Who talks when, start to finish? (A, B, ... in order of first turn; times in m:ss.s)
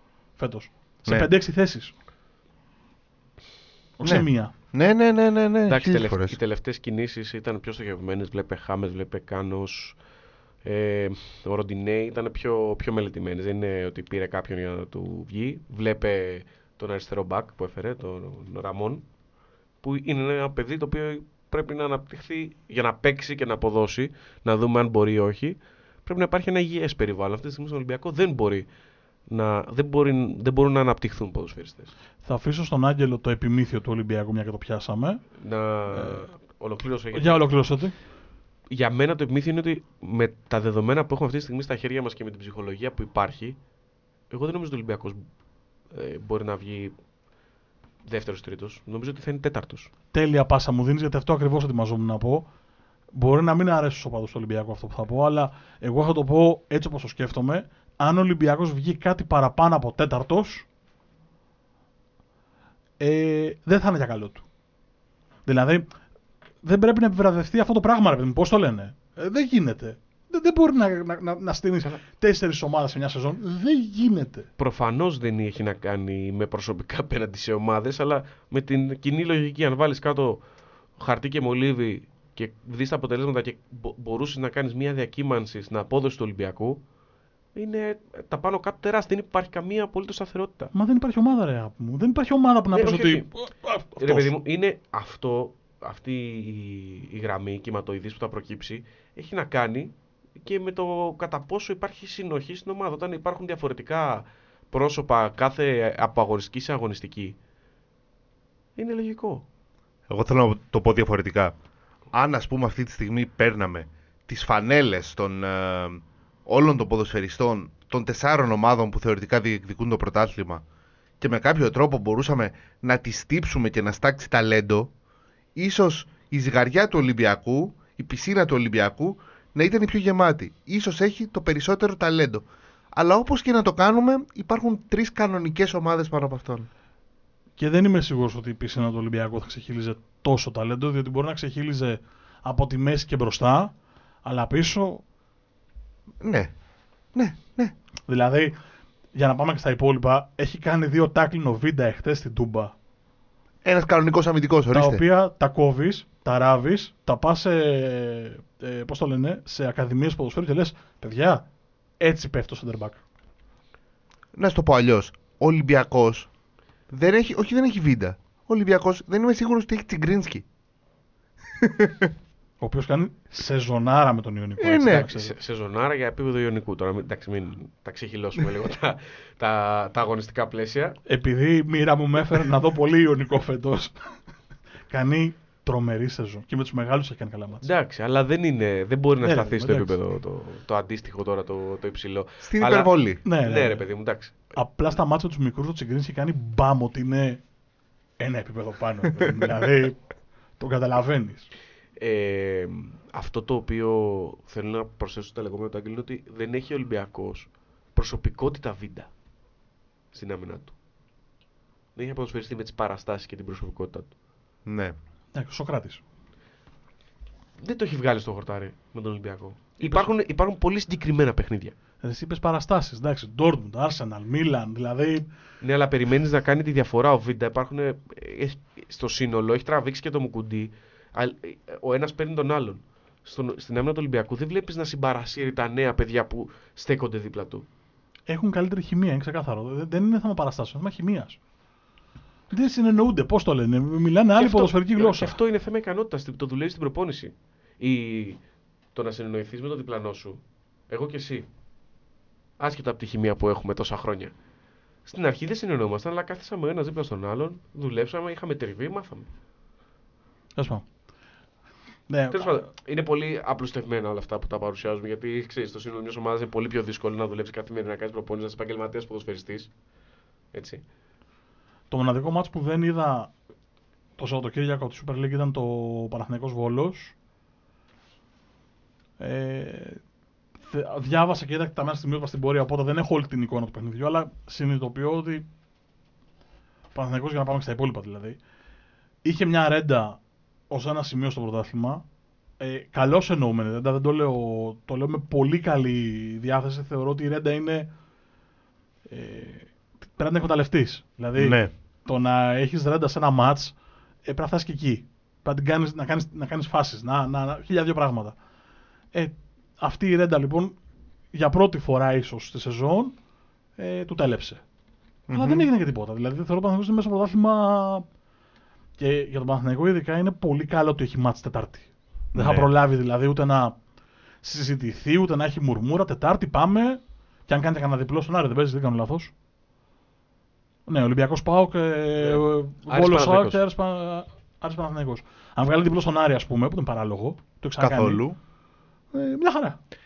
0:00.4-0:01.9 A
0:04.0-0:04.5 A
0:04.0-0:06.4 B
0:05.7-0:10.0 C
0:10.6-0:19.0 C
0:19.8-0:28.7 C
0:29.3-0:31.9 C
0:32.2-0:35.2 A
0:35.4-0:37.4 C
0:35.9-0:36.3 A
0:37.1-0:37.9 A
0:38.7-0:43.6 C
0:44.3-0:45.2 C
0:45.9-0:46.9 C
0:48.0-0:49.9 C
0:50.1-0:52.5 A
0:53.1-1:00.7 A
1:03.0-1:04.4 A
1:05.4-1:05.9 A
1:06.6-1:14.5 A
1:14.6-1:20.4 C
1:21.0-1:26.8 C
1:27.5-1:30.7 C
1:30.7-1:34.3 A
1:32.7-1:33.3 C
1:34.0-1:47.4 C
1:48.8-1:49.4 C
1:50.1-1:51.5 B
1:52.1-2:00.6 B
2:01.2-2:04.9 B
2:05.5-2:16.7 B
2:17.6-2:25.0 A
2:26.2-2:26.5 B
2:27.1-2:27.7 B
2:28.1-2:28.5 A
2:29.1-2:32.7 A
2:33.6-2:35.0 B
2:34.7-2:41.4 A
2:42.0-2:43.0 A
2:44.4-2:46.3 B
2:46.9-2:50.4 B
2:51.6-2:52.1 B
2:52.6-2:55.3 A
2:54.6-2:55.1 B
2:54.9-3:01.0 C
3:01.1-3:04.1 A
3:04.9-3:07.6 A
3:07.6-3:14.5 C
3:09.2-3:10.0 A
3:12.4-3:13.2 B
3:13.2-3:13.8 A
3:14.5-3:17.4 A
3:18.2-3:20.0 A
3:20.6-3:21.5 A
3:22.0-3:29.1 C
3:30.1-3:30.7 C
3:32.0-3:34.1 C
3:34.6-3:35.0 B
3:35.3-3:36.0 A
3:37.6-3:41.7 C
3:39.8-3:40.1 A
3:42.0-3:45.3 A
3:45.6-3:57.6 C
3:58.3-4:01.4 A
4:02.5-4:05.4 A
4:04.4-4:08.4 C
4:08.9-4:11.4 C
4:12.6-4:14.3 C
4:15.0-4:19.3 C
4:20.6-4:20.8 A
4:22.1-4:22.7 A
4:22.3-4:29.7 C
4:30.5-4:30.8 C
4:31.9-4:33.3 A
4:34.2-4:37.1 A
4:39.2-4:40.0 A
4:40.6-4:45.4 A
4:46.9-4:48.4 A
4:49.2-4:52.0 A
4:52.6-4:57.9 A
4:59.1-5:08.4 A
5:01.4-5:01.7 B
5:09.1-5:10.7 A
5:11.3-5:13.1 A
5:13.8-5:14.6 A
5:15.3-5:15.6 B
5:15.3-5:18.0 A
5:19.0-5:23.8 A
5:22.3-5:22.7 B
5:24.4-5:29.3 A
5:30.9-5:38.2 A
5:32.2-5:33.6 C
5:37.8-5:38.4 B
5:39.1-5:39.8 A